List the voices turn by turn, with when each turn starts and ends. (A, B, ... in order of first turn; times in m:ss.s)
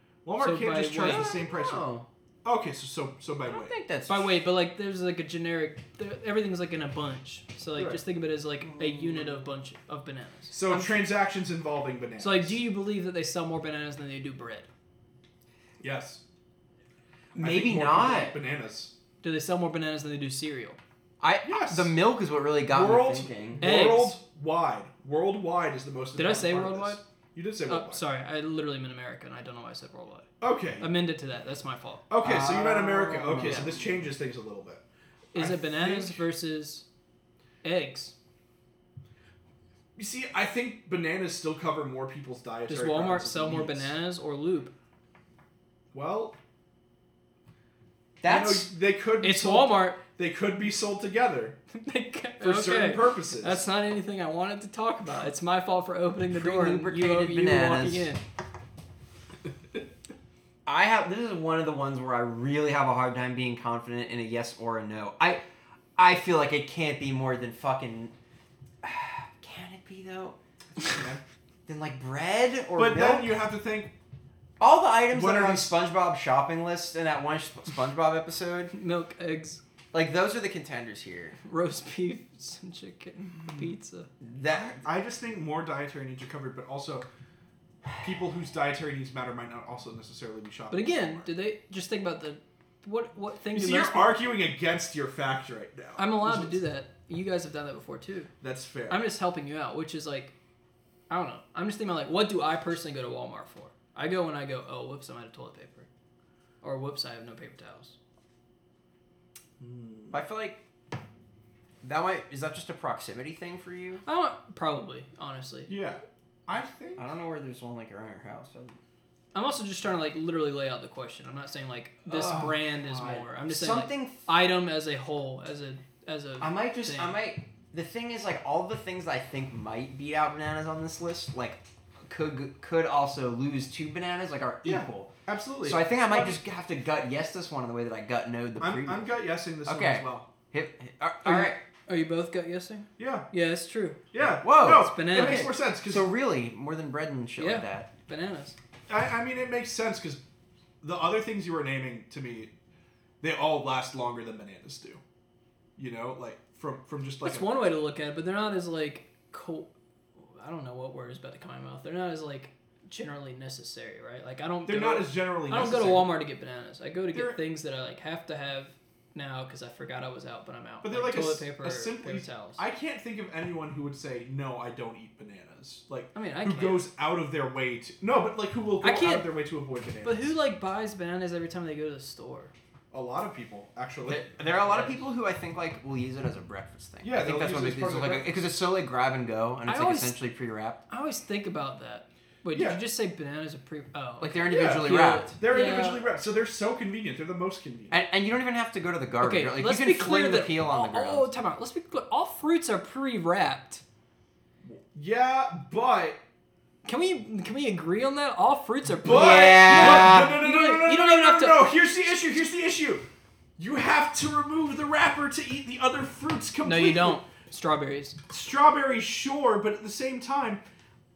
0:00.2-0:03.8 A
0:00.4-0:01.3 B
0:01.0-0:02.1 C
0:03.5-0:04.4 C
0:04.1-0:11.0 B
0:07.8-0:08.0 A
0:08.7-0:09.4 C
0:10.5-0:12.6 A
0:12.2-0:14.7 B
0:15.8-0:16.2 A
0:17.4-0:18.9 A
0:17.4-0:18.4 C
0:19.2-0:20.8 B
0:21.2-0:23.7 C
0:21.4-0:22.0 A
0:22.6-0:28.0 A
0:23.6-0:24.2 B
0:26.2-0:27.0 B
0:27.7-0:30.3 B
0:30.4-0:30.9 A
0:30.8-0:32.1 B
0:32.1-0:34.8 A
0:32.2-0:33.8 C
0:35.3-0:36.8 B
0:35.3-0:36.2 A
0:37.6-0:38.1 B
0:40.0-0:43.9 A
0:42.7-0:44.7 B
0:45.9-0:46.4 A
0:48.2-0:48.7 C
0:48.2-0:51.6 A
0:49.2-0:50.0 B
0:51.7-0:58.2 B
0:52.4-0:53.6 A
0:56.3-0:58.1 C
1:00.7-1:05.4 C
1:06.0-1:08.1 C
1:08.8-1:10.4 C
1:10.8-1:11.2 A
1:11.7-1:13.3 C
1:12.8-1:13.9 A
1:14.6-1:18.7 C
1:15.1-1:15.8 A
1:18.7-1:19.6 B
1:19.9-1:21.4 C
1:21.4-1:24.1 B
1:24.2-1:24.8 C
1:24.6-1:27.1 A
1:28.0-1:31.3 A
1:30.7-1:34.2 B
1:33.5-1:36.6 A
1:36.0-1:38.3 B
1:38.4-1:39.1 A
1:38.9-1:40.4 B
1:41.1-1:45.9 B
1:46.6-1:48.0 B
1:49.6-1:50.2 A
1:50.1-1:50.6 C
1:51.8-1:54.0 C
1:54.0-1:55.8 B
1:55.7-1:57.1 A
1:57.0-1:58.8 C
1:59.3-2:07.2 B
2:02.1-2:04.3 C
2:06.4-2:15.1 C
2:14.6-2:16.4 A
2:15.6-2:19.1 C
2:18.6-2:20.3 A
2:19.6-2:21.6 C
2:21.2-2:24.0 B
2:23.0-2:23.3 A
2:24.1-2:26.1 A
2:24.2-2:27.9 C
2:24.6-2:25.5 B
2:27.4-2:28.6 B
2:28.9-2:30.2 A
2:30.8-2:32.5 A
2:33.2-2:35.0 A
2:35.8-2:37.6 A
2:37.2-2:52.6 B
2:44.7-2:46.2 A
2:47.1-2:47.4 A
2:50.8-3:00.4 A
2:56.1-2:56.9 B
2:58.8-2:59.3 B
3:00.0-3:02.5 B
3:02.9-3:04.9 A
3:04.1-3:10.8 C
3:07.0-3:08.4 A
3:09.7-3:10.2 B
3:10.9-3:16.1 B
3:12.5-3:12.8 A
3:14.2-3:15.3 C
3:14.4-3:18.0 A
3:17.9-3:21.3 C
3:19.2-3:23.8 B
3:24.6-3:26.2 A
3:26.8-3:31.6 B
3:29.0-3:33.1 A
3:29.1-3:30.4 C
3:33.6-3:37.2 A
3:36.6-3:38.2 B
3:38.3-3:40.6 A